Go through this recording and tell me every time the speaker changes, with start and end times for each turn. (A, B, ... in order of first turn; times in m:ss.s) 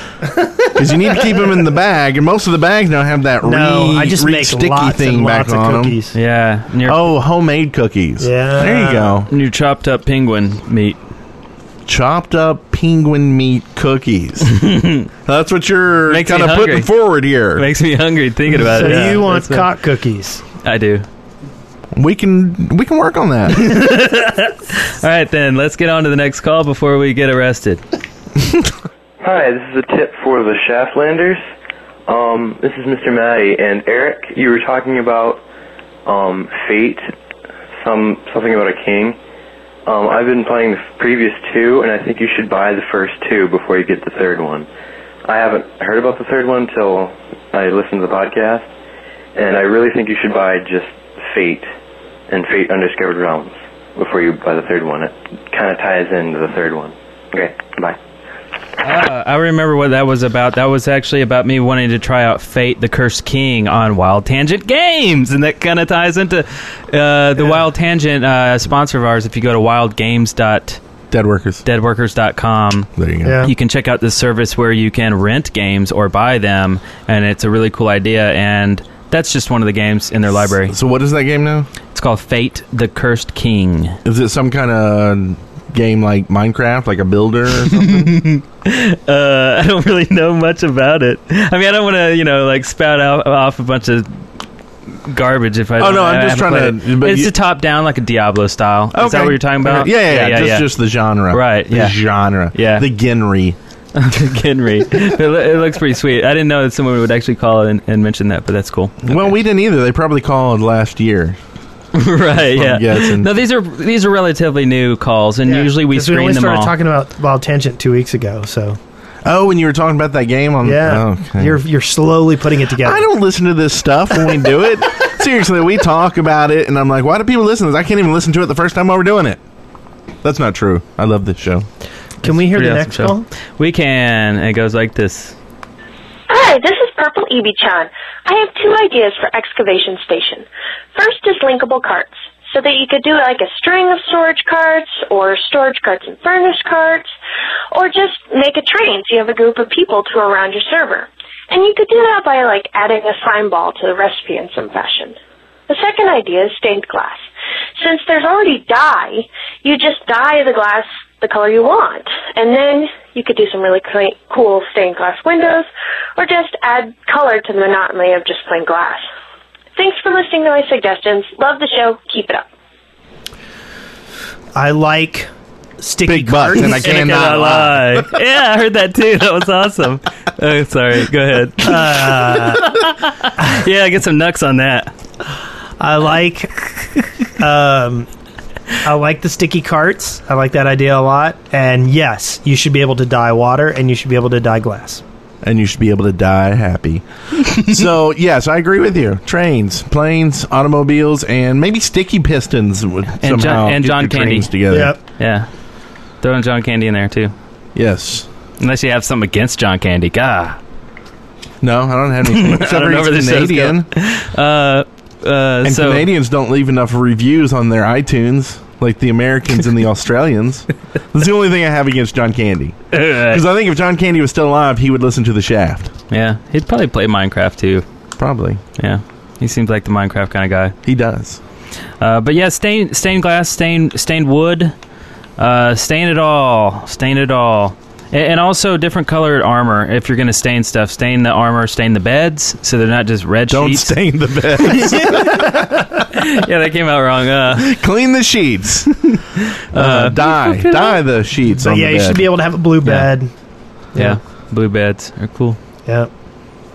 0:00.8-0:06.0 A
0:03.4-0:06.1 B
0:06.1-0:07.1 C
0:06.8-0:09.3 A
0:08.2-0:09.2 B
0:09.3-0:11.0 C
0:11.9-0:14.6 A
0:14.5-0:15.1 C
0:15.2-0:17.6 A
0:16.1-0:16.9 C
0:17.6-0:19.7 C
0:18.5-0:20.4 B
0:20.6-0:21.1 C
0:22.0-0:23.7 A
0:23.6-0:27.8 C
0:29.2-0:31.4 D
0:32.1-0:35.4 D
0:36.1-0:37.0 D
0:37.8-0:39.2 D
0:39.9-0:44.7 D
0:45.2-0:48.7 D
0:49.4-0:51.7 D
0:52.3-0:58.0 D
0:58.8-1:10.8 C
1:11.1-1:11.6 A
1:11.6-1:12.9 C
1:13.0-1:13.5 A
1:13.2-1:13.5 B
1:13.4-1:20.7 C
1:20.4-1:21.7 A
1:21.9-1:24.0 C
1:24.0-1:28.1 A
1:27.8-1:34.1 C
1:35.1-1:40.7 C
1:35.8-1:37.3 A
1:38.9-1:43.6 A
1:41.3-1:42.0 C
1:42.5-1:42.8 C
1:44.0-1:49.3 C
1:49.0-1:51.4 A
1:52.0-1:56.7 C
1:52.4-1:53.3 A
1:55.4-1:58.8 B
1:59.2-2:01.6 A
2:00.6-2:03.1 B
2:02.8-2:09.4 A
2:10.2-2:11.7 A
2:12.2-2:13.3 B
2:12.2-2:15.4 C
2:16.3-2:20.4 E
2:21.0-2:27.1 E
2:27.7-2:35.1 E
2:35.7-2:37.2 E
2:37.8-2:49.0 E
2:49.8-2:52.4 E
2:54.6-2:55.3 B
2:55.8-2:57.0 B
2:56.0-2:58.1 A
2:56.6-3:04.9 C
3:01.6-3:02.8 B
3:05.8-3:06.6 B
3:07.4-3:08.1 B
3:08.8-3:15.0 B
3:15.4-3:25.0 A
3:23.2-3:25.5 C
3:24.7-3:25.0 B
3:26.2-3:27.3 C
3:27.8-3:28.3 A
3:28.6-3:30.6 C
3:31.6-3:33.9 A
3:32.3-3:36.1 C
3:35.6-3:45.9 A
3:42.9-3:43.4 C
3:46.1-3:47.8 C
3:48.2-3:48.6 A
3:48.8-3:50.8 C
3:50.8-3:51.4 A
3:52.0-3:54.8 C
3:55.4-4:04.0 C
4:03.5-4:05.5 A
4:04.9-4:05.2 C
4:06.1-4:07.7 C
4:07.6-4:08.9 A
4:09.7-4:12.3 A
4:09.7-4:11.0 C
4:11.6-4:13.3 B
4:12.8-4:13.1 C
4:14.0-4:15.6 C